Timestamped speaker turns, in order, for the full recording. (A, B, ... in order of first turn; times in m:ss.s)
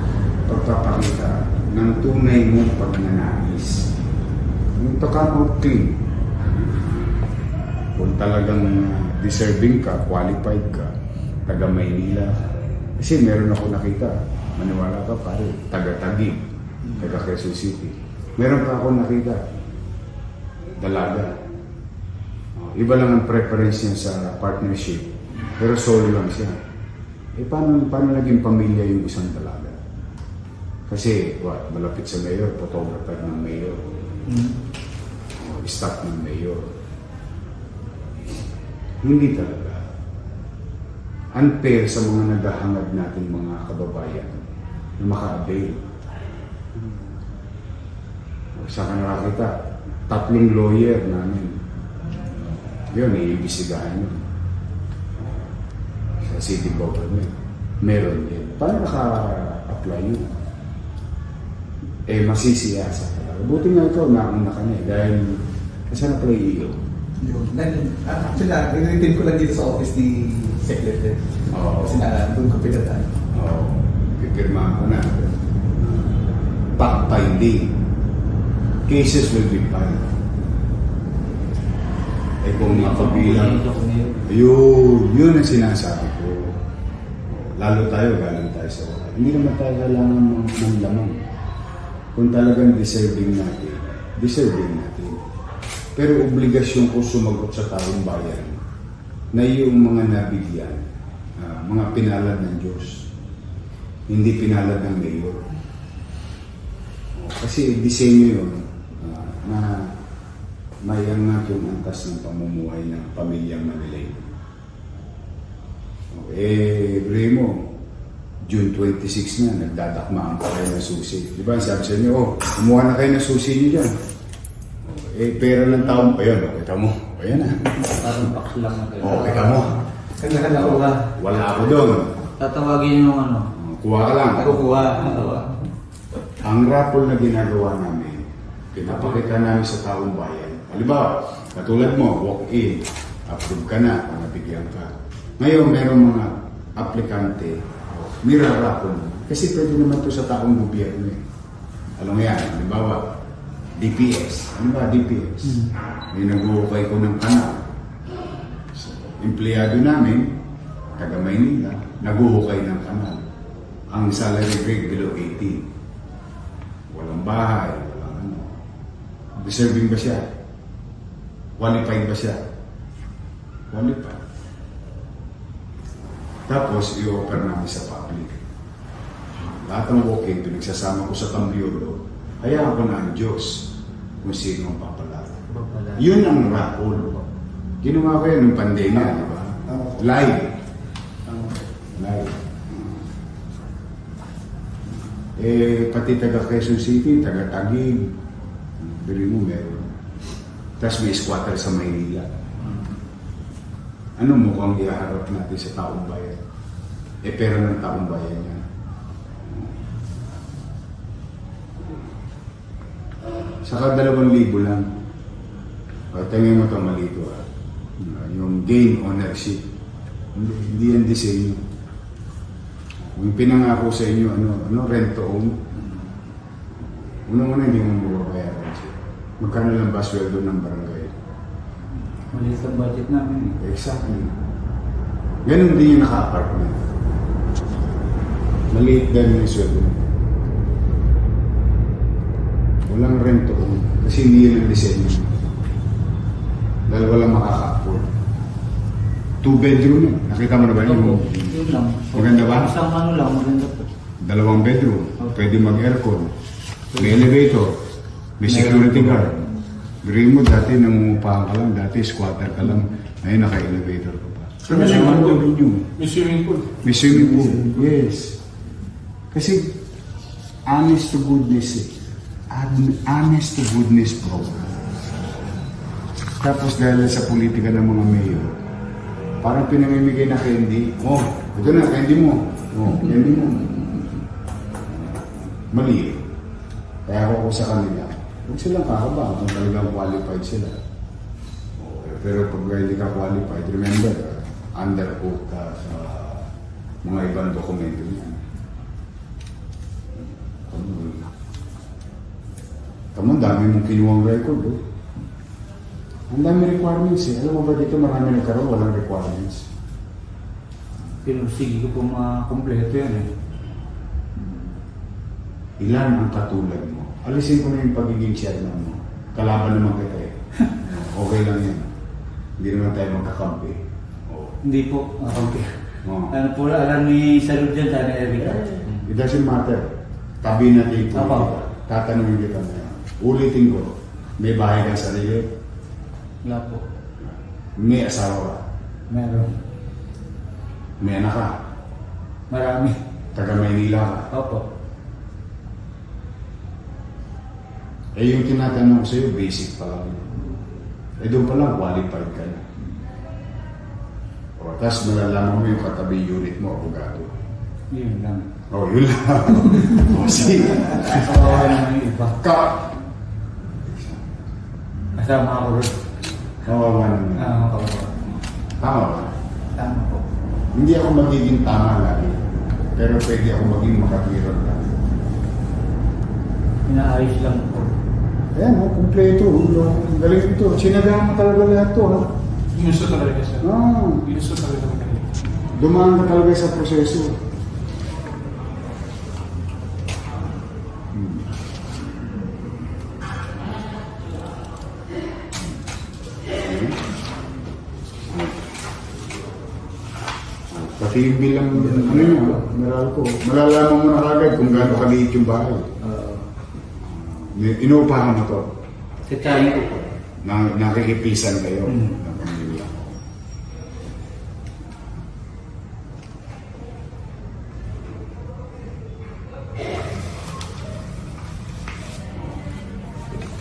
0:00.5-0:03.9 A
0:04.8-0:07.1 A
0:07.9-0:10.9 A
0:11.5-0:12.4 A
0:13.0-0:19.5 A
0:20.8-0:21.3 A
0:22.6-0:26.5 A
0:27.4-0:29.8 A
0:30.9-0:33.8 A
0:34.3-0:34.6 B
0:35.4-0:36.7 A
0:39.0-0:39.9 A
0:41.3-0:44.4 A
0:45.0-0:45.8 A
0:48.6-0:49.5 A
0:50.1-0:51.6 A
0:52.3-0:54.2 A
0:55.2-0:55.5 A
0:56.2-1:00.3 A
1:02.1-1:06.8 A
1:07.2-1:13.1 C
1:11.5-1:12.0 A
1:13.3-1:16.2 A
1:16.8-1:17.8 A
1:18.9-1:20.1 A
1:22.4-1:23.6 A
1:22.6-1:24.3 B
1:24.3-1:26.6 A
1:27.3-1:31.2 A
1:32.1-1:35.2 A
1:36.0-1:38.6 A
1:39.3-1:43.1 A
1:44.1-1:45.4 A
1:47.2-1:50.0 A
1:50.8-1:54.3 A
1:56.1-1:57.7 A
1:58.4-2:04.0 A
2:04.8-2:07.9 A
2:07.8-2:09.6 B
2:09.0-2:09.8 A
2:10.1-2:11.0 C
2:10.5-2:12.1 A
2:12.4-2:13.5 B
2:13.6-2:14.7 A
2:14.4-2:15.5 C
2:14.7-2:15.2 B
2:16.4-2:31.2 A
2:32.0-2:33.2 A
2:33.8-2:37.6 A
2:35.4-2:35.7 B
2:38.7-2:40.4 A
2:41.0-2:43.2 A
2:43.9-2:45.7 A
2:46.9-2:48.6 A
2:49.4-2:50.3 A
2:51.6-2:52.4 A
2:53.7-2:54.2 A
2:56.5-2:58.4 A
2:59.4-3:03.7 A
3:04.2-3:05.4 A
3:05.5-3:06.0 B
3:05.9-3:07.2 A
3:07.8-3:10.6 A
3:11.3-3:11.6 B
3:12.0-3:13.1 A
3:15.3-3:18.2 A
3:18.8-3:19.9 A
3:20.8-3:22.3 A
3:24.2-3:26.4 A
3:27.2-3:28.6 A
3:29.4-3:29.8 A
3:31.8-3:32.1 A
3:33.6-3:34.9 A
3:36.1-3:37.4 A
3:38.0-3:39.6 A
3:40.3-3:41.6 A
3:43.0-3:45.6 A
3:47.2-3:51.1 A
3:52.3-3:53.5 B
3:53.4-3:54.4 A
3:55.4-3:56.8 A
3:58.7-4:00.0 A
4:02.9-4:05.4 A
4:06.9-4:08.1 A
4:09.4-4:11.5 A
4:10.8-4:13.9 B
4:12.1-4:12.8 A
4:14.2-4:16.3 A
4:16.9-4:17.8 A
4:18.4-4:19.5 A
4:18.4-4:19.0 B
4:20.0-4:25.9 A
4:24.7-4:25.4 D
4:26.0-4:26.8 D
4:26.8-4:28.4 A
4:29.3-4:29.7 A
4:30.7-4:31.9 A
4:32.5-4:34.7 A
4:36.4-4:38.5 A
4:39.4-4:44.0 A
4:44.9-4:46.3 A
4:47.1-4:50.8 A
4:51.8-4:56.5 A
4:57.0-4:58.4 A
5:00.2-5:01.3 A
5:03.1-5:04.8 A
5:06.3-5:09.6 A
5:11.2-5:13.3 B
5:15.8-5:21.9 A
5:22.6-5:24.5 A
5:24.6-5:29.0 B
5:26.0-5:26.3 A
5:28.4-5:29.9 A
5:30.4-5:35.5 A
5:31.1-5:31.5 B
5:36.4-5:36.8 B
5:37.2-5:38.6 A
5:39.1-5:39.6 B
5:41.0-5:41.5 A
5:42.5-5:43.0 B
5:43.3-5:44.3 A
5:44.3-5:44.6 B
5:48.2-5:50.4 A
5:51.2-5:52.6 A
5:54.6-5:57.3 A
5:57.9-5:58.5 B
5:58.7-6:01.7 A
6:01.0-6:02.4 B
6:02.3-6:03.0 A
6:03.8-6:04.3 A
6:05.2-6:06.0 B
6:06.6-6:07.6 A
6:07.4-6:08.4 B
6:08.8-6:09.3 A
6:09.7-6:10.2 B
6:10.7-6:12.4 A
6:13.0-6:14.9 A
6:16.8-6:17.9 B
6:18.5-6:22.3 A
6:22.7-6:23.7 D
6:23.6-6:24.4 A
6:24.2-6:25.3 D
6:25.7-6:27.4 A
6:31.1-6:31.5 A
6:36.6-6:37.0 A
6:38.3-6:38.6 A
6:40.7-6:45.9 A
6:41.9-6:42.4 C
6:46.0-6:46.4 C
6:47.0-6:48.7 A
6:49.2-6:50.1 B
6:50.4-6:53.2 A